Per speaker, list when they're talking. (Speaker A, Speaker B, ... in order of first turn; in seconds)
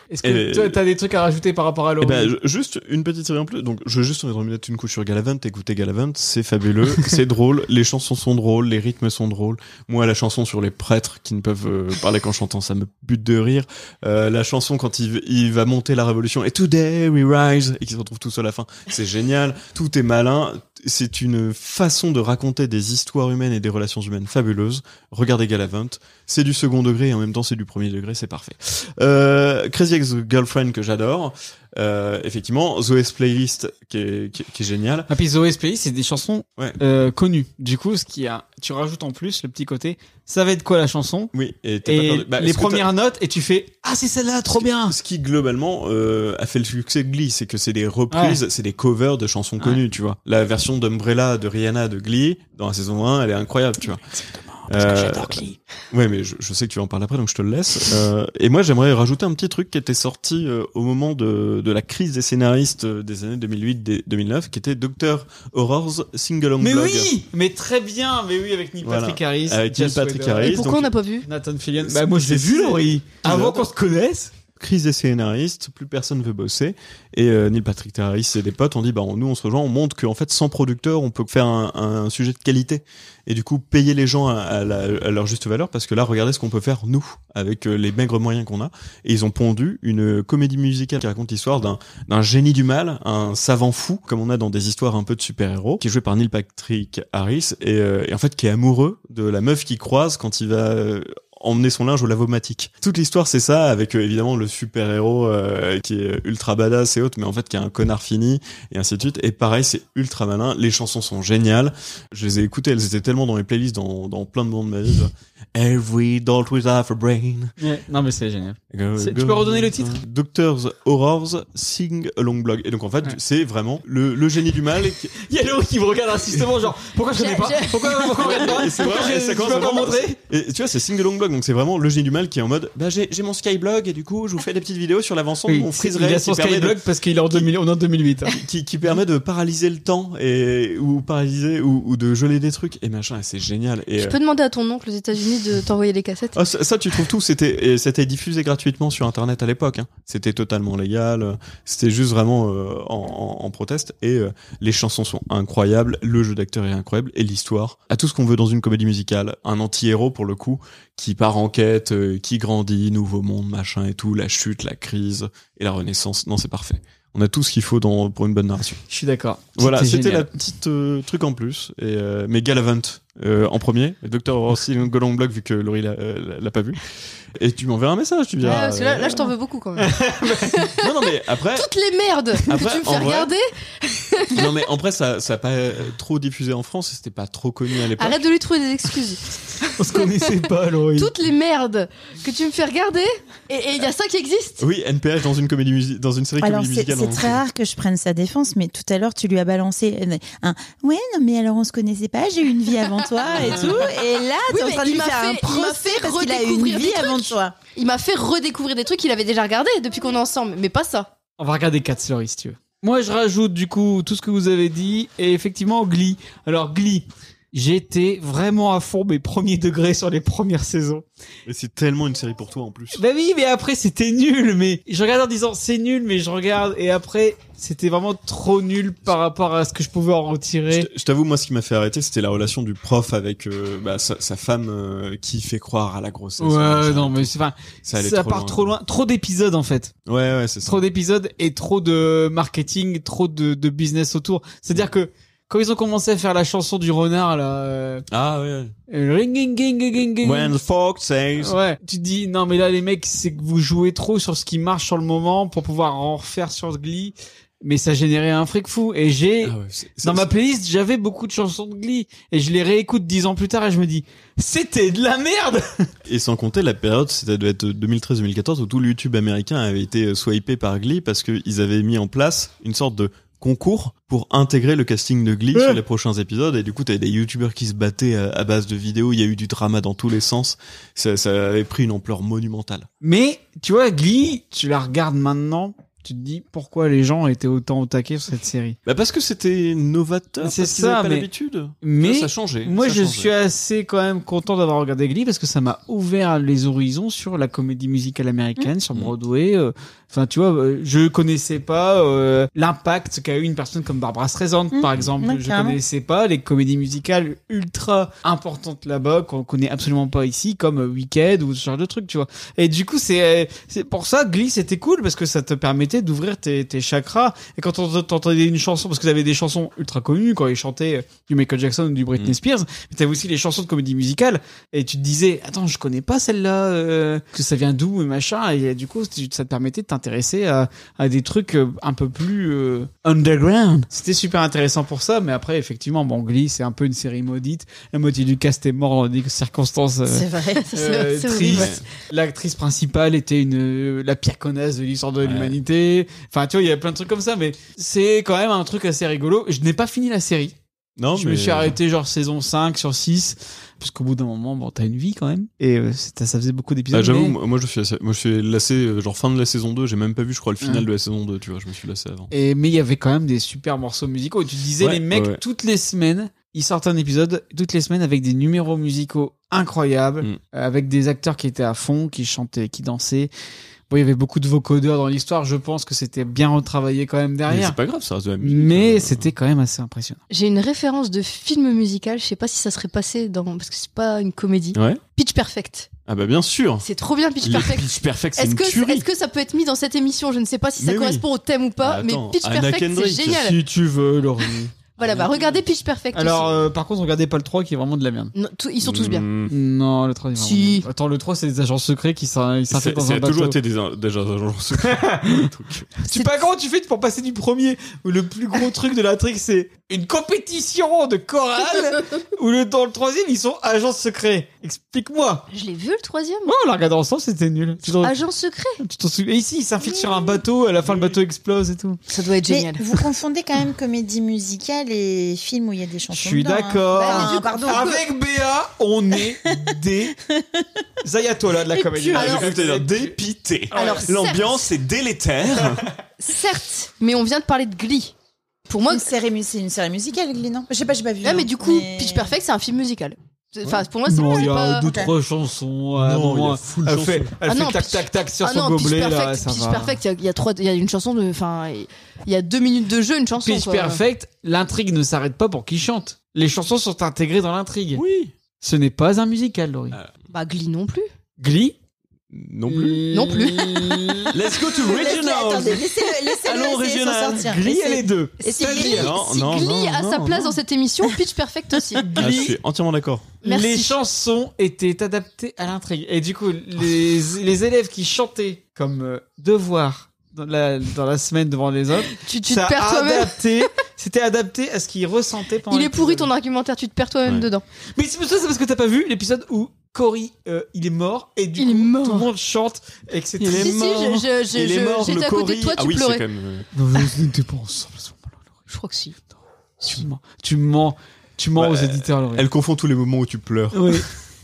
Speaker A: 0.1-2.3, 35.1-41.3, 41.8-45.0, 48.1-48.4, 54.1-55.6, 66.6-70.6, 71.2-74.3, 117.6-120.0, 125.2-130.2, 135.5-138.4, 168.9-170.3, 179.8-180.6, 189.8-191.1, 211.4-221.1, 222.9-230.9, 236.4-239.9, 240.6-248.1, 248.9-250.6, 251.4-265.9, 275.5-275.8, 283.0-288.8, 290.4-291.3, 291.8-350.6, 351.1-357.4, 362.3-373.3, 373.9-377.8, 378.4-380.2, 393.3-394.7, 396.1-398.3, 399.5-403.6, 404.8-405.5, 406.0-415.4, 416.4-418.1, 418.8-422.0, 426.1-430.2, 431.0-433.2, 433.7-434.1, 444.1-450.0, 453.4-458.0, 458.6-460.0, 461.4-461.8, 462.7-464.3, 467.4-469.1, 472.0-472.6, 473.4-486.3, 487.9-493.8, 496.7-498.5, 499.8-502.4, 503.7-504.1
Speaker B: 0.2-0.8, 2.0-35.1, 41.3-42.9, 44.5-54.0, 54.7-67.1, 68.8-70.9, 71.8-73.7, 74.6-117.5, 118.7-125.1, 128.2-137.4, 138.4-144.2, 146.3-168.8, 169.6-176.8, 177.3-179.3, 180.8-181.7, 182.5-183.3, 184.3-188.3, 194.6-197.4, 221.4-223.0, 230.7-238.7, 240.1-240.8, 248.1-248.7, 250.2-251.6, 259.4-260.3, 266.1-282.9, 288.8-293.3, 341.5-341.8, 345.2-345.6, 351.0-351.8, 356.9-362.3, 364.8-365.4, 377.5-379.3, 384.7-385.0, 386.1-386.8, 387.4-389.1, 390.8-391.3, 391.8-393.4, 395.0-395.6, 398.8-399.5, 402.7-405.9, 420.8-421.1, 432.1-435.9, 446.0-447.3, 457.9-458.3, 462.3-463.0, 464.3-467.6, 468.9-470.6, 472.2-473.3, 493.4-496.7, 501.6-504.1
Speaker C: 70.4-71.3, 127.1-128.6, 144.0-146.3, 178.4-184.5, 188.0-190.2, 190.9-194.6, 204.5-211.1, 340.6-341.8, 380.3-385.9, 386.8-393.6, 395.0-396.6, 398.3-399.3, 400.4-400.9, 415.5-416.5, 417.9-418.8, 422.1-422.9, 426.9-427.9, 432.1-432.4, 433.7-434.7, 436.2-438.1, 438.7-439.1, 441.2-444.9, 447.5-454.0, 460.3-461.1, 463.1-464.1, 468.4-472.3, 473.4-473.9, 482.2-483.4, 485.7-487.6, 491.6-492.3, 493.5-496.2, 498.7-499.2
Speaker D: 196.4-207.6, 304.7-305.8, 340.1-340.7, 422.5-428.1, 430.2-430.7, 431.8-432.2, 438.9-442.3, 444.3-445.1, 464.6-469.1